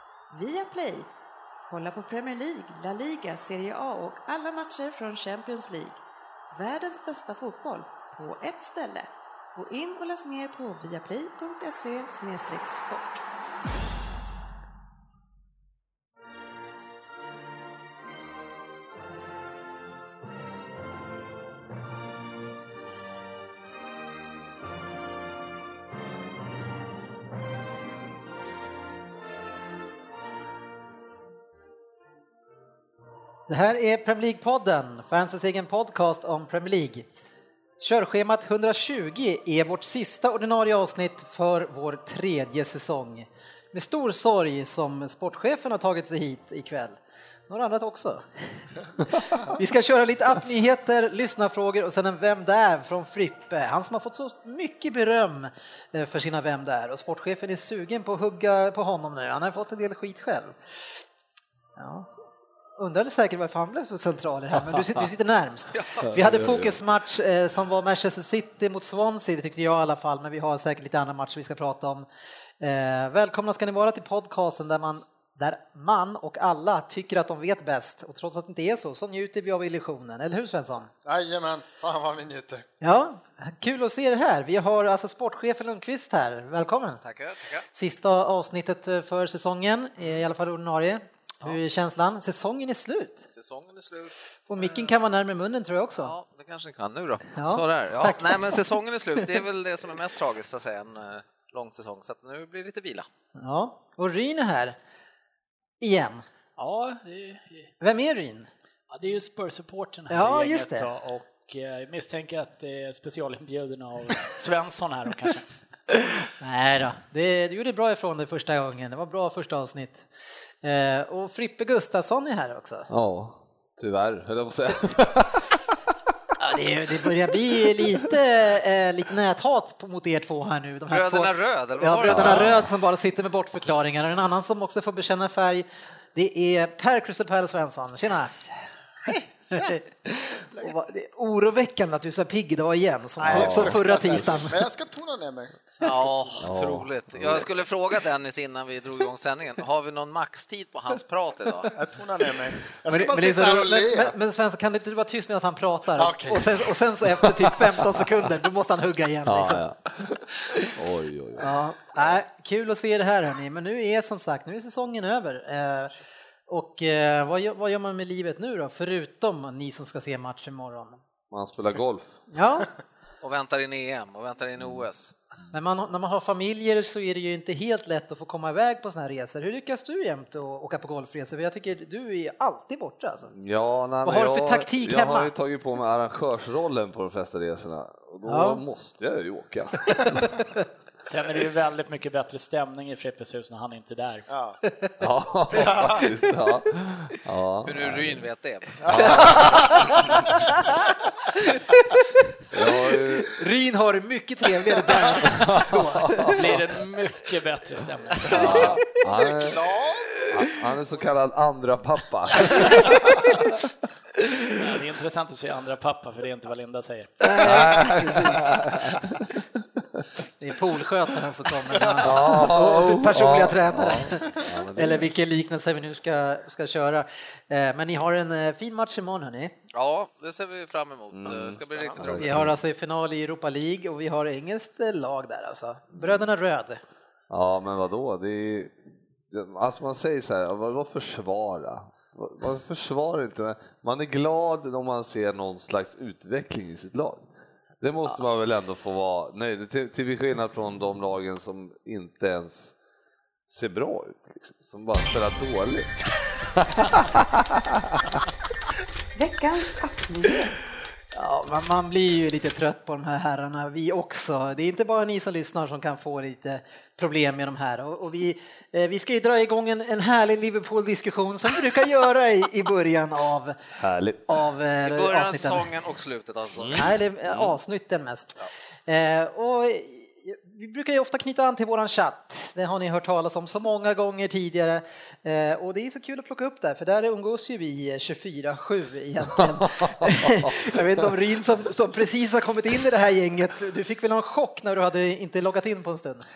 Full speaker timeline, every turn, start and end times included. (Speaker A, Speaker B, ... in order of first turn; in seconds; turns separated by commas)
Speaker A: 0.3-1.1, Speaker A: 1.6-6.0, Speaker A: 6.5-13.2, Speaker B: 33.5-37.1, Speaker B: 37.8-47.0, Speaker B: 47.5-48.2, Speaker B: 49.0-60.5, Speaker B: 61.8-62.1, Speaker B: 62.8-72.1, Speaker C: 65.8-66.1, Speaker D: 66.0-66.8, Speaker B: 72.6-80.9, Speaker E: 81.0-82.7, Speaker B: 82.8-87.0, Speaker C: 87.0-87.6, Speaker B: 87.7-93.3, Speaker C: 93.3-94.9, Speaker B: 94.5-96.1, Speaker C: 96.0-103.1, Speaker B: 97.4-98.6, Speaker B: 103.4-104.8, Speaker B: 105.8-106.2, Speaker F: 106.6-107.7, Speaker B: 107.8-108.5, Speaker F: 108.9-115.5, Speaker B: 110.1-110.9, Speaker B: 116.4-120.1, Speaker B: 120.6-122.9, Speaker D: 122.9-125.6, Speaker B: 126.4-138.4, Speaker C: 130.9-132.6, Speaker D: 132.1-132.7, Speaker E: 139.1-139.8, Speaker B: 139.5-144.6, Speaker E: 143.2-146.5, Speaker D: 143.3-143.8, Speaker C: 145.8-151.8, Speaker D: 146.4-147.5, Speaker E: 151.7-154.1, Speaker B: 152.9-159.6, Speaker E: 156.0-156.7, Speaker D: 157.3-158.0, Speaker D: 159.3-161.5, Speaker B: 161.4-165.9, Speaker B: 166.5-171.0, Speaker D: 171.3-172.2, Speaker B: 172.3-172.7, Speaker C: 173.2-175.2, Speaker B: 175.5-183.3, Speaker D: 183.3-190.4, Speaker B: 184.0-185.3, Speaker B: 188.2-188.6, Speaker F: 191.1-194.3, Speaker E: 194.3-194.6, Speaker B: 194.6-195.0, Speaker D: 195.0-198.2, Speaker E: 195.6-196.0, Speaker B: 195.7-196.1, Speaker C: 197.7-199.9, Speaker E: 198.8-199.4, Speaker D: 198.8-200.2, Speaker B: 199.2-199.5, Speaker D: 202.5-203.4, Speaker B: 203.2-206.4, Speaker D: 205.4-206.6, Speaker F: 206.3-208.8, Speaker D: 208.3-209.6, Speaker E: 208.3-210.2, Speaker D: 210.3-213.3, Speaker F: 214.5-217.1, Speaker B: 217.2-218.6, Speaker D: 217.4-219.3, Speaker B: 220.4-229.5, Speaker D: 222.0-225.1, Speaker C: 229.7-232.5, Speaker D: 231.1-232.5, Speaker B: 232.1-236.8, Speaker D: 235.9-236.3, Speaker D: 237.3-238.8, Speaker D: 239.3-247.3, Speaker D: 247.8-252.7, Speaker D: 253.5-258.2, Speaker A: 259.1-260.6, Speaker B: 261.1-273.6, Speaker D: 273.8-274.3, Speaker B: 274.3-275.7, Speaker C: 274.8-276.9, Speaker B: 276.7-296.3, Speaker D: 289.4-290.8